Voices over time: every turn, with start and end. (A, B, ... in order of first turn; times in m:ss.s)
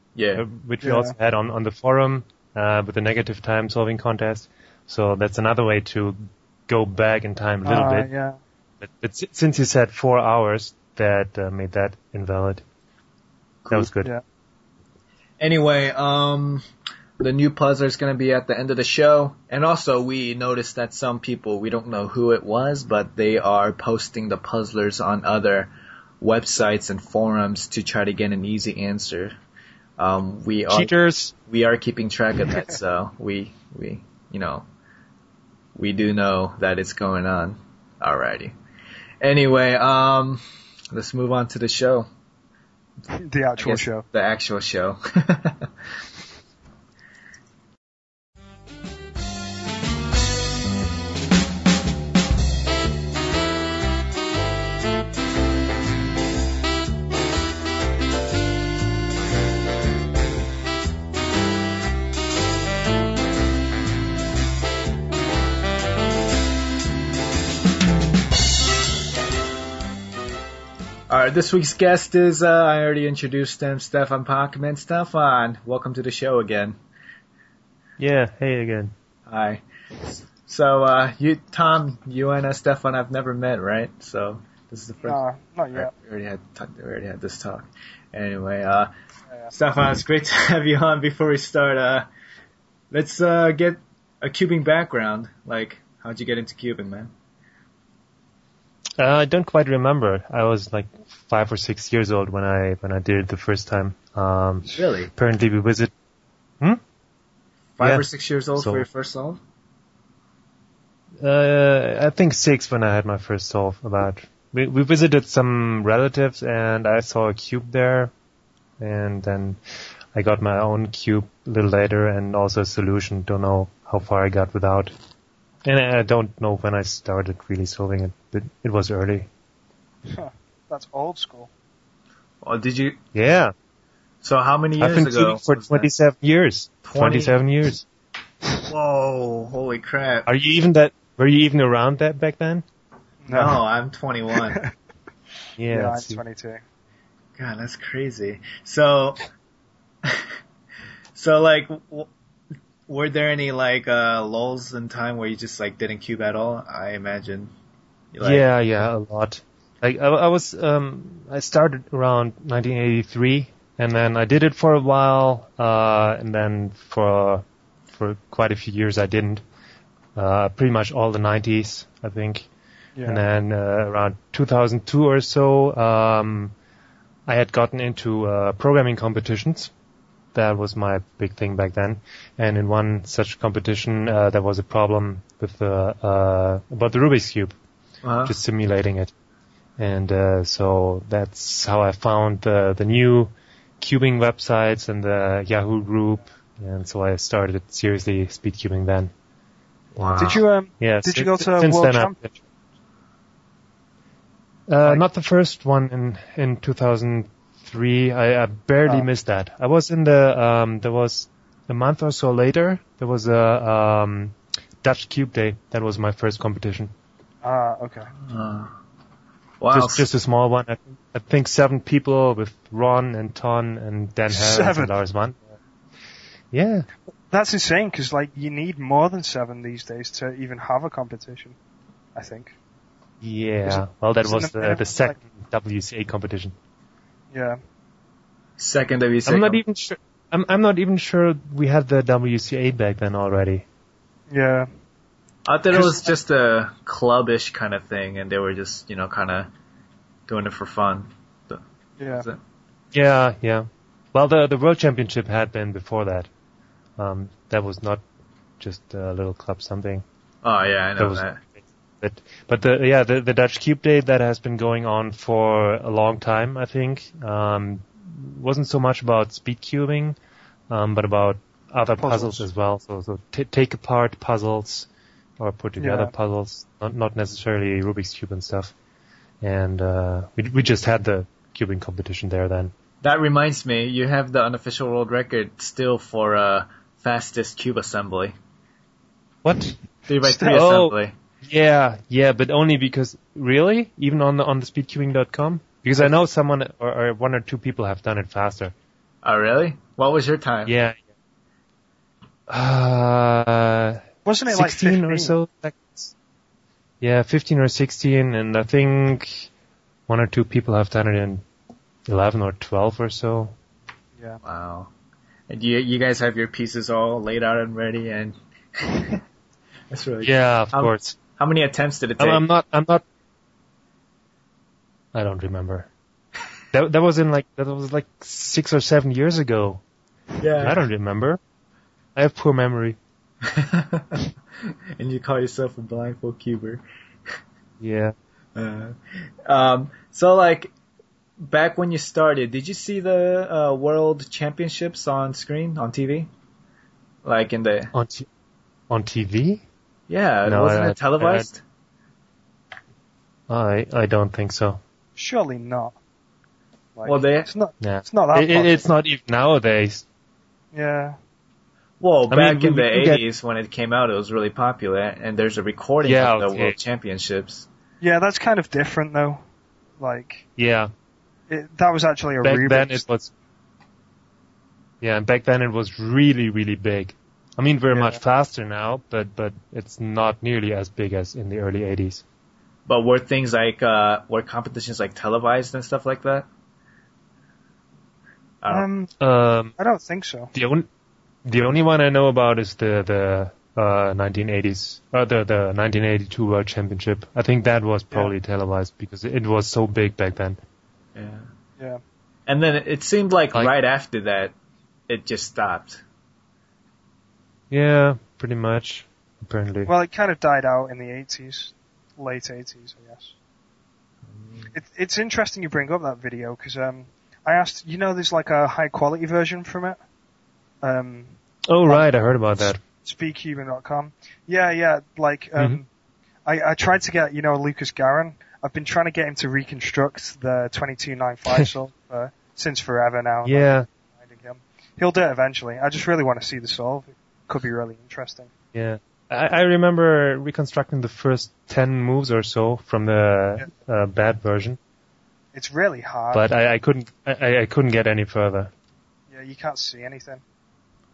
0:00.1-0:00.4 A
0:00.4-0:08.1 B
0:00.8-0:01.1 C
0:07.6-0:08.4 C
0:08.8-0:12.6 B
0:13.7-0:14.1 B
0:15.4-0:16.6 A
0:17.2-0:29.3 A
0:30.0-0:30.9 A
0:30.7-0:31.3 B
0:31.4-0:34.6 A
0:35.8-0:38.5 A
0:39.2-0:42.1 A
0:43.1-0:44.0 C
0:43.6-0:45.7 A
1:11.1-1:16.8 A
1:18.0-1:18.9 B
1:19.3-1:25.2 A
1:25.0-1:25.9 C
1:25.7-1:28.9 A
1:29.5-1:32.1 A
1:32.9-1:37.1 A
1:39.0-1:45.9 B
1:44.7-1:45.1 A
1:47.8-1:49.4 A
1:47.8-1:48.9 B
1:51.2-1:58.1 B
1:58.8-1:59.6 B
2:00.1-2:04.9 B
2:05.6-2:09.3 B
2:10.0-2:11.5 C
2:12.4-2:13.0 A
2:13.1-2:13.5 B
2:14.2-2:15.9 A
2:14.8-2:17.9 B
2:16.8-2:17.4 A
2:18.7-2:20.3 A
2:20.3-2:22.6 B
2:23.2-2:23.6 C
2:23.3-2:24.6 A
2:25.6-2:26.2 B
2:25.7-2:26.6 C
2:27.4-2:29.2 A
2:31.2-2:32.1 A
2:32.9-2:37.5 A
2:38.1-2:38.4 A
2:38.2-2:49.4 B
2:50.2-2:52.5 B
2:53.0-2:53.2 C
2:53.0-2:56.5 B
2:57.3-2:59.7 B
3:00.3-3:07.5 B
3:08.0-3:08.3 A
3:08.2-3:09.1 B
3:09.8-3:19.1 B
3:20.0-3:20.4 A
3:20.2-3:22.2 C
3:20.8-3:22.3 B
3:24.7-3:36.9 B
3:37.4-3:38.1 C
3:38.2-3:38.7 A
3:39.6-3:40.0 A
3:39.7-3:45.4 B
3:44.3-3:44.9 C
3:46.5-3:46.9 B
3:47.3-3:51.6 C
3:52.1-3:52.5 C
3:53.2-3:56.5 B
3:53.6-3:55.2 C
3:57.3-3:57.6 C
3:58.6-3:59.6 A
3:59.2-4:03.6 B
4:04.3-4:04.7 C
4:05.4-4:09.5 A
4:10.3-4:11.6 A
4:12.0-4:12.2 C
4:12.9-4:16.3 B
4:17.0-4:18.0 B
4:18.6-4:20.0 B
4:20.4-4:21.4 A
4:21.0-4:30.2 B
4:30.7-4:34.9 B
4:32.0-4:32.5 C
4:35.4-4:38.7 B
4:35.8-4:36.1 C
4:39.4-4:42.7 B
4:43.0-4:48.3 A
4:49.4-4:49.8 B
4:50.1-4:51.1 A
4:50.2-4:50.6 C
4:50.5-4:58.7 B
4:59.2-5:00.7 A
5:00.7-5:01.0 B
5:02.5-5:06.1 B
5:04.2-5:05.4 C
5:07.0-5:09.5 B
5:10.1-5:11.4 B
5:12.1-5:13.5 B
5:14.4-5:14.9 A
5:15.5-5:19.2 A
5:19.9-5:22.4 A
5:20.2-5:21.2 B
5:22.2-5:23.0 B
5:25.1-5:25.9 B
5:26.7-5:29.8 B
5:30.4-5:30.8 A
5:30.6-5:31.4 B
5:32.1-5:33.0 B
5:33.4-5:34.3 A
5:35.0-5:36.8 A
5:37.8-5:38.1 B
5:38.6-5:40.7 A
5:41.4-5:46.3 A
5:47.2-5:47.9 A
5:47.9-5:48.3 B
5:48.9-5:49.6 B
5:50.1-5:51.6 A
5:50.4-5:51.5 B
5:53.5-5:54.8 B
5:55.2-5:56.0 C
5:57.0-5:58.8 C
5:57.0-5:57.5 A
5:57.8-6:00.0 B
6:00.7-6:01.2 C
6:02.0-6:07.7 A
6:02.3-6:03.2 B
6:06.0-6:06.8 B
6:08.0-6:09.4 C
6:10.0-6:10.4 C
6:10.6-6:10.9 B
6:11.5-6:13.0 C
6:12.4-6:13.3 B
6:15.0-6:22.2 B
6:17.9-6:18.2 C
6:22.9-6:26.5 A
6:28.6-6:28.9 A
6:28.7-6:29.1 C
6:29.2-6:29.7 B
6:29.8-6:30.5 C
6:30.5-6:30.9 B
6:31.4-6:40.6 B
6:41.1-6:41.5 A
6:42.5-6:44.5 A
6:45.1-6:46.0 A
6:47.7-6:49.9 B
6:49.9-6:53.3 C
6:54.3-6:54.7 A
6:54.7-7:00.0 C
7:00.8-7:01.4 C
7:01.7-7:02.8 B
7:02.8-7:05.9 C
7:06.4-7:18.5 C
7:13.4-7:13.9 B
7:18.7-7:24.8 B
7:25.5-7:26.5 C
7:26.3-7:28.7 B
7:29.3-7:30.4 C